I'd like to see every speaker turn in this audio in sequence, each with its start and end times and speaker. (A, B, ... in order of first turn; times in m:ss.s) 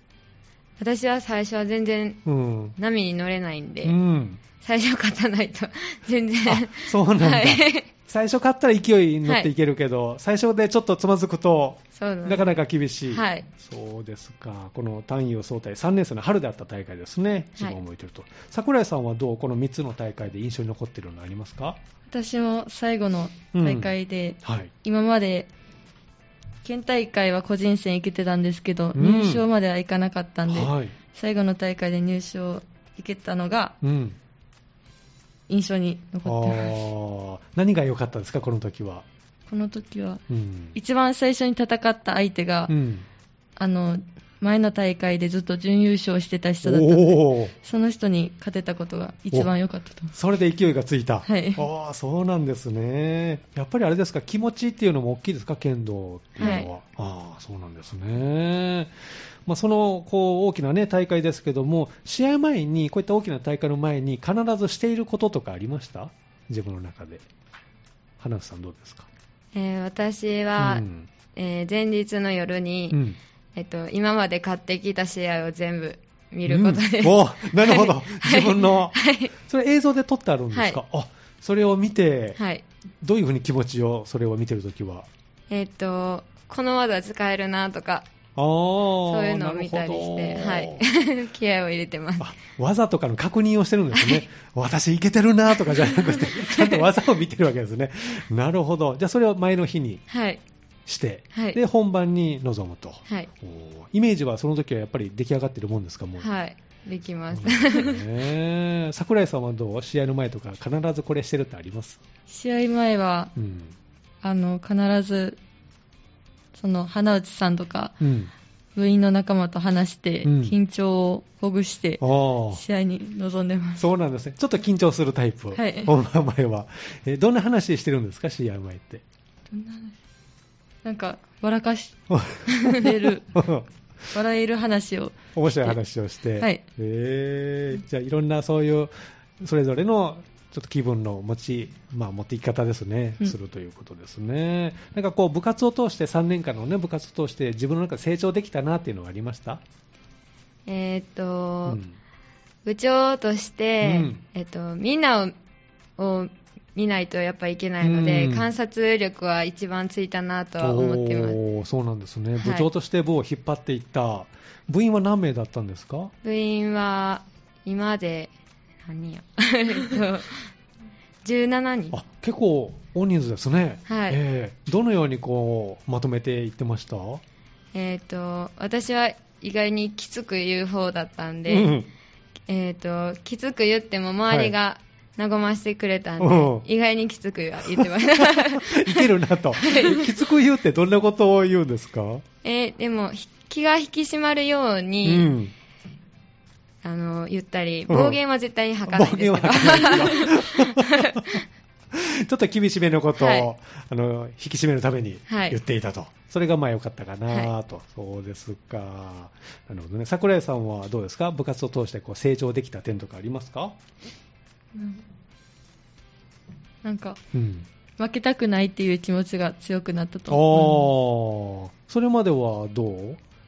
0:00.8-0:02.2 A
0:02.2-0:02.8 B
0:02.8-0:04.0 A
0:03.8-0:04.4 B
0:04.6-0:07.9 A
0:06.4-0:21.8 B
0:11.9-0:12.5 A
0:13.1-0:13.5 A
0:22.1-0:25.5 C
0:23.5-0:23.9 B
0:24.4-0:24.7 B
0:26.6-0:33.8 C
0:28.9-0:29.4 B
0:30.5-0:30.9 B
0:33.8-0:34.2 B
0:35.5-0:36.7 C
0:36.2-0:39.0 B
0:39.5-0:40.2 C
0:40.3-0:40.8 B
0:40.7-0:42.7 C
0:42.7-0:43.0 B
0:43.6-0:50.1 C
0:46.6-0:47.5 B
0:50.1-0:58.9 B
0:51.2-0:51.6 C
0:56.4-0:56.7 A
0:56.4-0:56.7 C
0:59.4-1:07.2 B
1:08.2-1:09.1 B
1:09.5-1:13.0 A
1:10.6-1:11.1 B
1:12.9-1:13.2 B
1:13.5-1:19.3 A
1:16.4-1:22.4 B
1:20.5-1:20.8 A
1:22.4-1:22.6 A
1:23.0-1:25.1 B
1:25.5-1:28.1 A
1:28.4-1:30.8 B
1:29.1-1:32.3 A
1:32.2-1:40.0 B
1:33.9-1:34.2 A
1:35.6-1:36.8 A
1:40.1-1:40.4 A
1:40.8-1:46.3 B
1:41.3-1:41.6 A
1:46.2-1:48.0 A
1:47.3-1:52.0 B
1:52.3-1:53.3 C
1:53.4-1:53.7 B
1:54.2-1:55.4 C
1:56.5-1:58.0 C
1:58.0-1:58.3 B
1:58.8-2:03.8 C
2:00.2-2:00.5 B
2:02.0-2:02.6 B
2:03.8-2:09.0 B
2:05.5-2:05.9 C
2:09.5-2:09.9 C
2:10.8-2:13.3 C
2:12.1-2:14.1 B
2:14.1-2:15.8 C
2:15.4-2:29.6 B
2:30.6-2:31.8 A
2:31.6-2:31.9 B
2:32.6-2:35.3 A
2:33.8-2:34.2 B
2:36.0-2:41.4 A
2:37.8-2:38.5 B
2:40.6-2:46.1 B
2:42.4-2:42.7 A
2:46.2-2:48.3 A
2:48.8-2:50.5 A
2:51.2-2:52.0 A
2:51.9-2:57.2 B
2:53.9-2:54.2 A
2:57.7-3:01.7 A
3:01.5-3:01.9 B
3:02.5-3:10.1 A
3:04.3-3:04.5 B
3:06.2-3:06.6 B
3:07.7-3:12.2 B
3:12.4-3:15.3 A
3:15.0-3:15.5 B
3:16.8-3:21.2 A
3:17.9-3:18.2 B
3:18.9-3:21.4 B
3:21.9-3:33.8 B
3:23.2-3:23.5 A
3:25.3-3:25.6 A
3:27.3-3:27.5 A
3:34.7-3:35.0 C
3:36.8-3:37.2 C
3:37.3-3:37.6 B
3:38.0-3:40.9 C
3:40.3-3:43.2 B